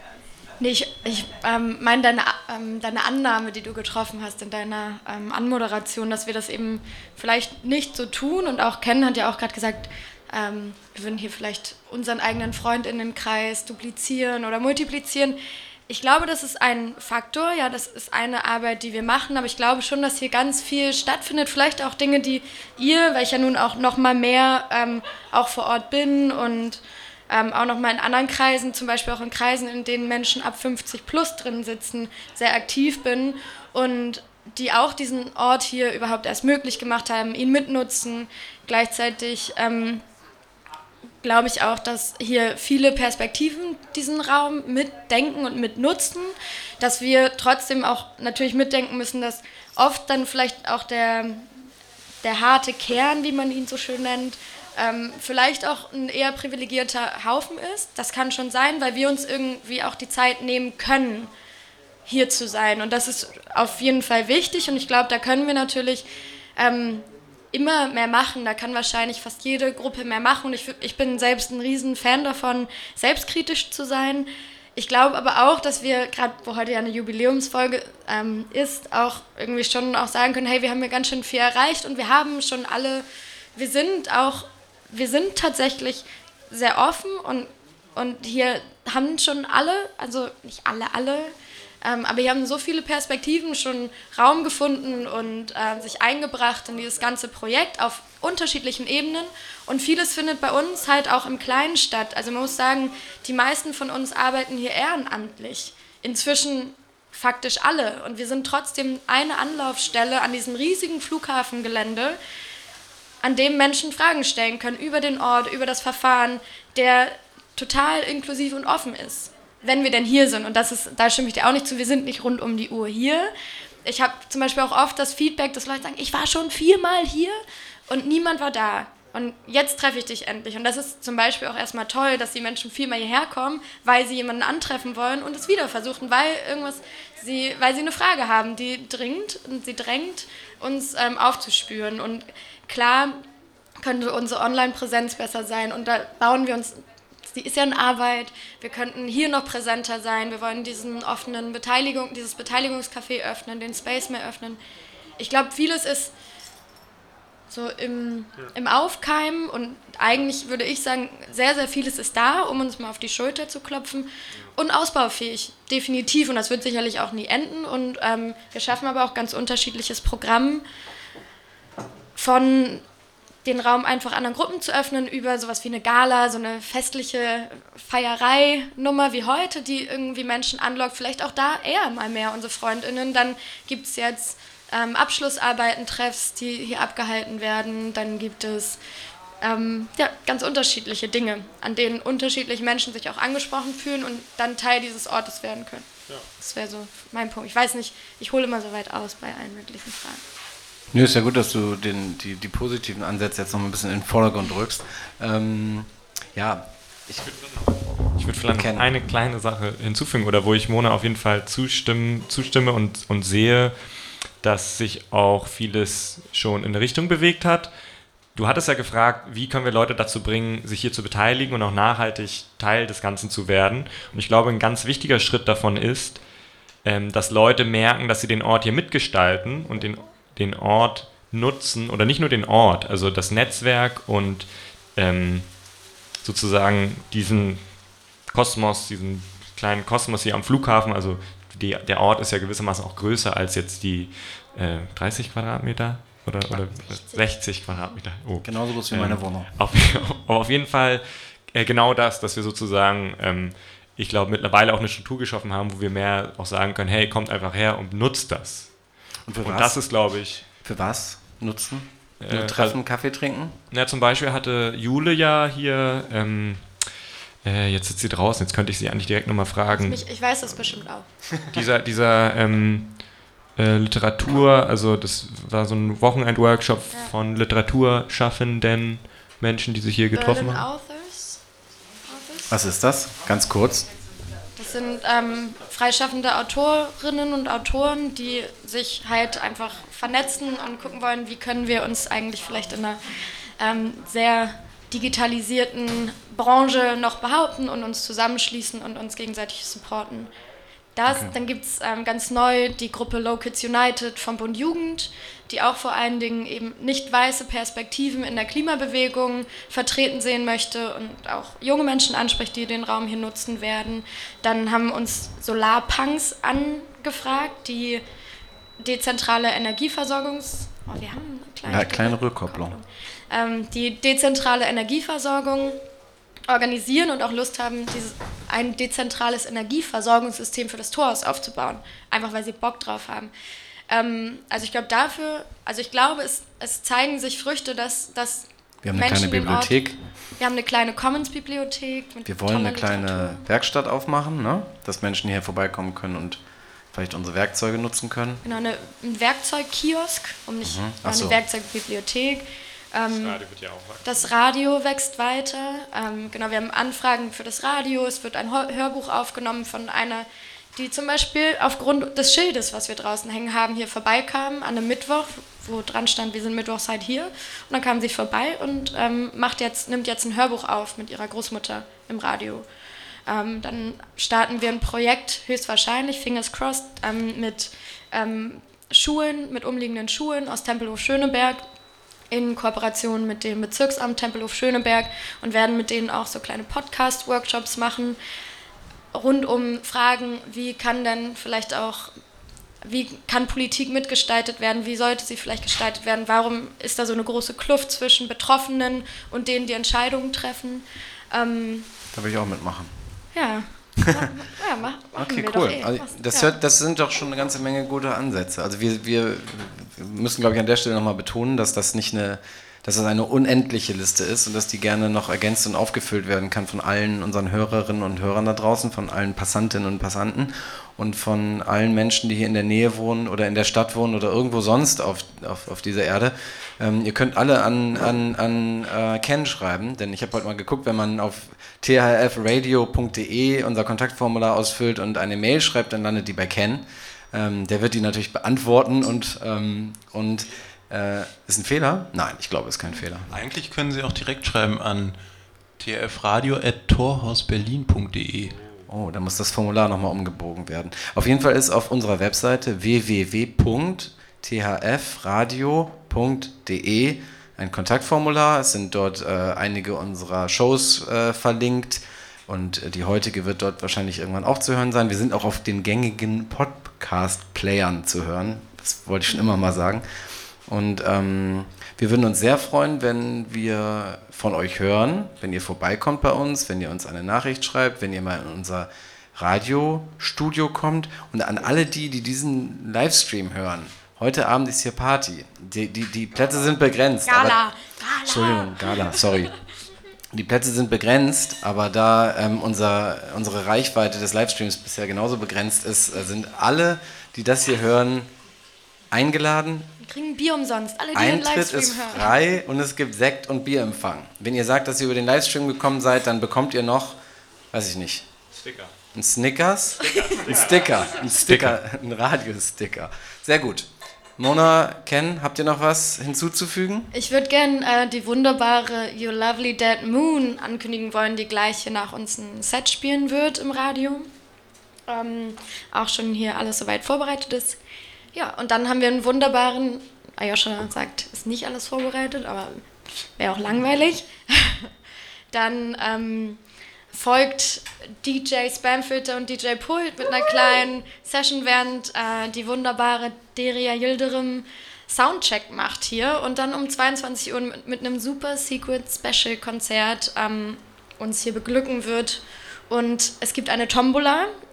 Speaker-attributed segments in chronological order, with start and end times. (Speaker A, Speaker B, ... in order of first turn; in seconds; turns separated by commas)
Speaker A: 0.6-15.4, Speaker A: 15.9-40.0, Speaker A: 41.2-51.5, Speaker A: 52.2-61.3, Speaker A: 62.1-66.0, Speaker A: 66.6-83.0, Speaker A: 83.5-91.3, Speaker A: 91.8-112.2, Speaker A: 113.2-123.3, Speaker A: 123.8-143.2, Speaker A: 143.8-146.8, Speaker A: 147.3-154.6, Speaker A: 155.2-156.1, Speaker A: 157.5-170.6, Speaker A: 172.2-172.8, Speaker A: 173.4-188.8, Speaker A: 189.4-195.8, Speaker A: 196.4-200.2, Speaker B: 200.9-207.3, Speaker C: 208.2-213.7, Speaker B: 208.4-209.0, Speaker C: 214.4-217.7, Speaker C: 218.3-226.2, Speaker C: 226.8-235.5, Speaker C: 236.2-237.6, Speaker C: 238.3-258.7, Speaker B: 248.4-249.5, Speaker B: 259.2-259.8, Speaker C: 259.4-260.5, Speaker B: 260.6-263.6, Speaker C: 262.2-262.8, Speaker C: 263.7-266.7, Speaker C: 267.4-270.0, Speaker A: 269.7-271.1, Speaker C: 271.5-273.0, Speaker C: 273.6-280.6, Speaker A: 280.1-281.4, Speaker A: 282.1-282.5, Speaker B: 282.5-283.9, Speaker A: 284.6-293.0, Speaker A: 293.6-300.3, Speaker A: 300.9-318.0, Speaker B: 301.1-301.3, Speaker A: 318.8-325.8, Speaker B: 321.6-322.8, Speaker A: 326.5-333.3, Speaker A: 333.9-339.8, Speaker B: 338.8-340.0, Speaker A: 340.4-343.4, Speaker B: 342.2-346.4, Speaker B: 346.9-348.4, Speaker A: 348.4-353.4, Speaker B: 350.6-351.4, Speaker C: 353.1-354.3, Speaker A: 354.0-372.6, Speaker A: 373.3-381.6, Speaker A: 382.3-388.2, Speaker A: 389.1-392.1, Speaker A: 392.8-401.9, Speaker B: 402.1-403.2, Speaker A: 403.3-406.6, Speaker B: 405.1-443.3, Speaker D: 443.3-445.1, Speaker D: 445.8-448.6, Speaker B: 448.9-470.0, Speaker B: 470.7-487.6, Speaker A: 487.2-489.1, Speaker B: 488.2-489.5, Speaker B: 490.3-498.3, Speaker B: 499.1-499.9, Speaker A: 500.0-502.3, Speaker B: 501.1-507.2, Speaker B: 507.7-508.3, Speaker C: 508.6-508.9, Speaker B: 509.1-517.1, Speaker C: 510.4-511.8, Speaker A: 517.1-524.3, Speaker A: 525.1-527.8, Speaker A: 528.3-532.8, Speaker A: 533.4-534.9, Speaker A: 535.5-536.6, Speaker A: 537.1-554.5